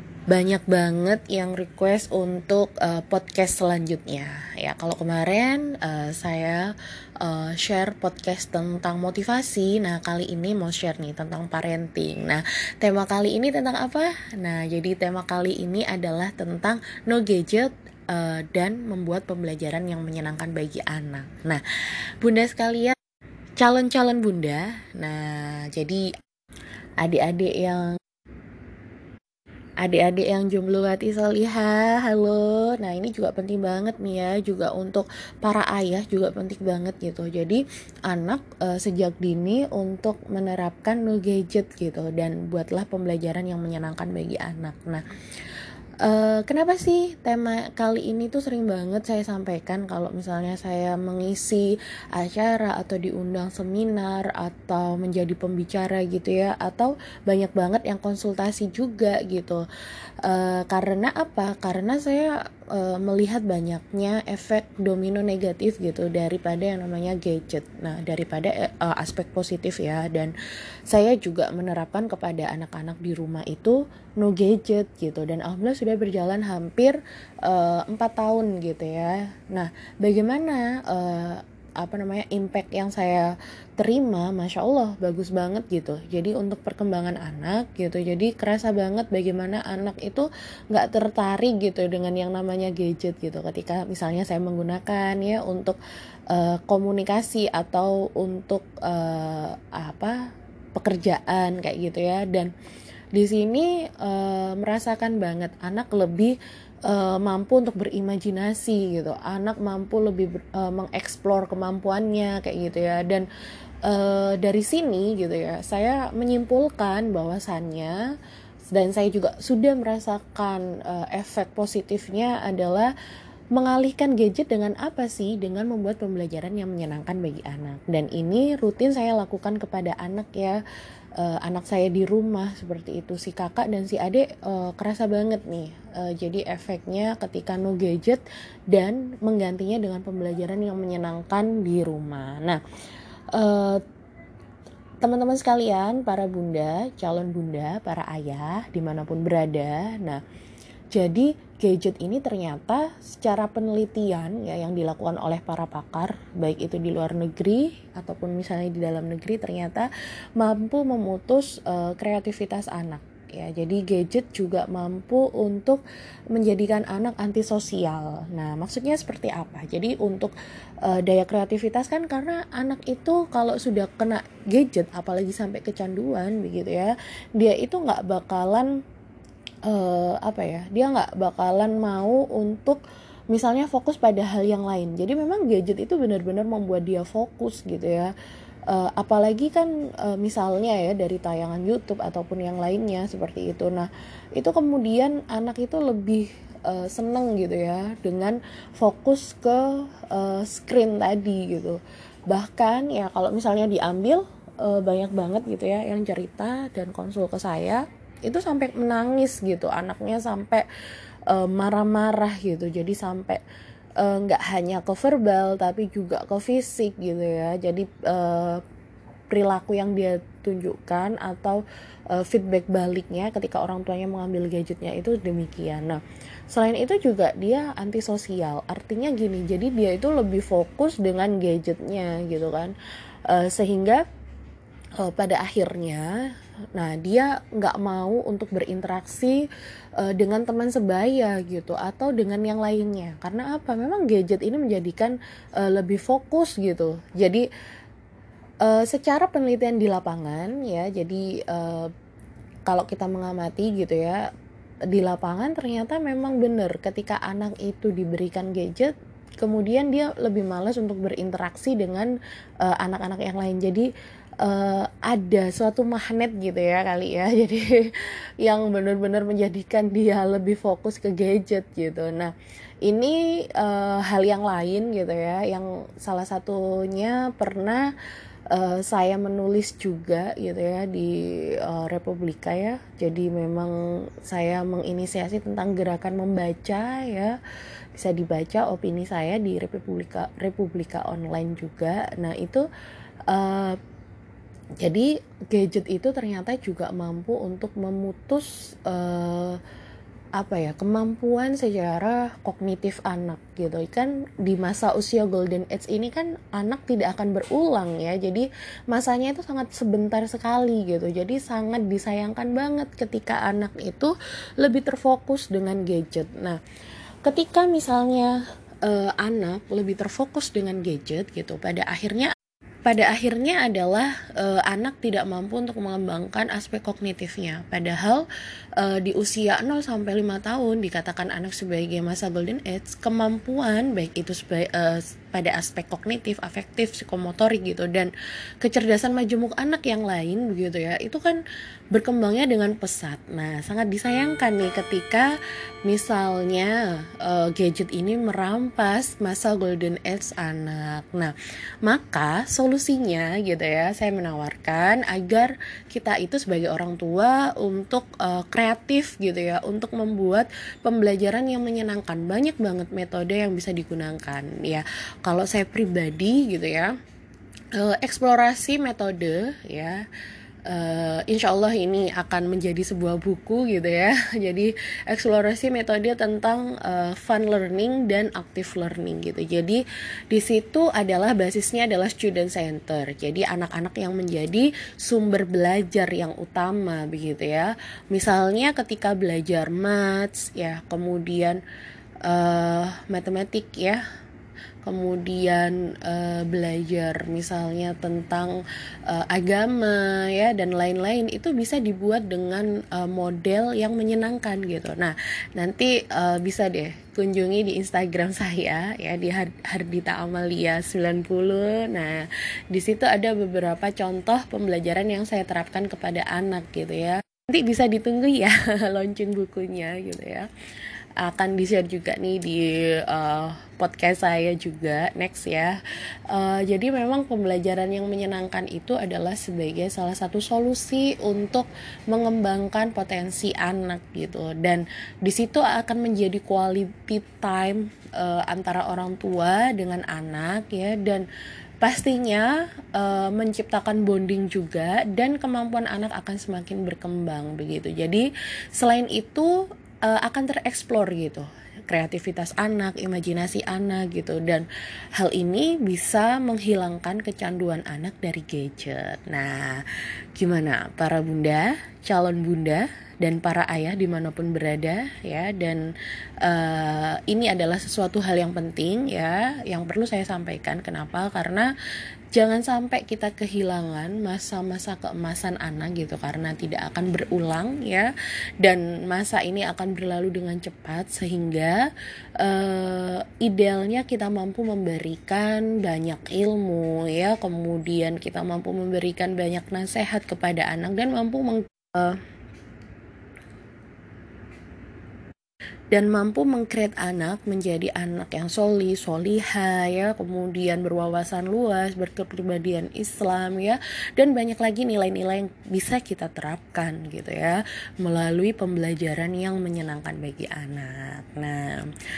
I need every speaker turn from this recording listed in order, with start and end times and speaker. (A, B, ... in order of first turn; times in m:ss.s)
0:00.3-0:06.7 A
0:07.2-0:21.6 A
0:22.2-0:23.0 A
0:23.6-0:26.0 A
0:27.0-0:28.0 A
0:29.8-0:45.0 A
0:46.0-0:59.6 A
1:00.2-1:10.3 A
1:10.9-1:35.8 A
1:36.3-1:40.1 A
1:40.8-1:42.5 A
1:43.1-1:46.3 A
1:46.9-1:53.2 A
1:53.8-1:58.0 A
1:58.7-2:02.9 A
2:03.5-2:10.6 A
2:11.2-2:22.6 A
2:23.3-2:23.8 A
2:25.0-2:30.2 A
2:30.9-2:45.8 A
2:46.3-2:50.3 A
2:50.8-2:58.7 A
2:59.7-3:02.8 A
3:03.3-3:08.1 A
3:08.7-3:30.6 A
3:31.3-3:33.4 A
3:34.0-3:38.6 A
3:39.3-3:52.7 A
3:53.3-3:54.0 A
3:55.0-3:56.1 A
3:56.7-3:59.4 A
4:00.0-4:07.4 A
4:08.6-4:11.9 A
4:12.7-4:14.2 A
4:14.9-4:23.9 A
4:24.4-4:32.3 A
4:32.8-4:37.8 A
4:38.5-4:47.3 A
4:48.0-4:52.6 A
4:53.3-4:53.8 A
4:54.8-4:59.6 A
5:00.4-5:16.6 A
5:17.2-5:22.3 A
5:22.8-5:28.2 A
5:28.8-5:41.4 A
5:41.9-5:45.3 A
5:45.8-6:06.9 A
6:07.7-6:10.0 A
6:10.7-6:31.6 A
6:32.2-6:34.0 A
6:34.8-7:00.5 A
7:01.2-7:05.8 A
7:06.3-7:21.2 A
7:21.8-7:28.2 A
7:28.8-7:29.5 A
7:30.0-7:34.6 A
7:35.2-7:39.8 A
7:40.4-7:45.8 A
7:46.4-7:51.7 A
7:52.3-7:58.1 A
7:58.6-8:01.8 A
8:02.4-8:12.2 A
8:15.9-8:31.9 A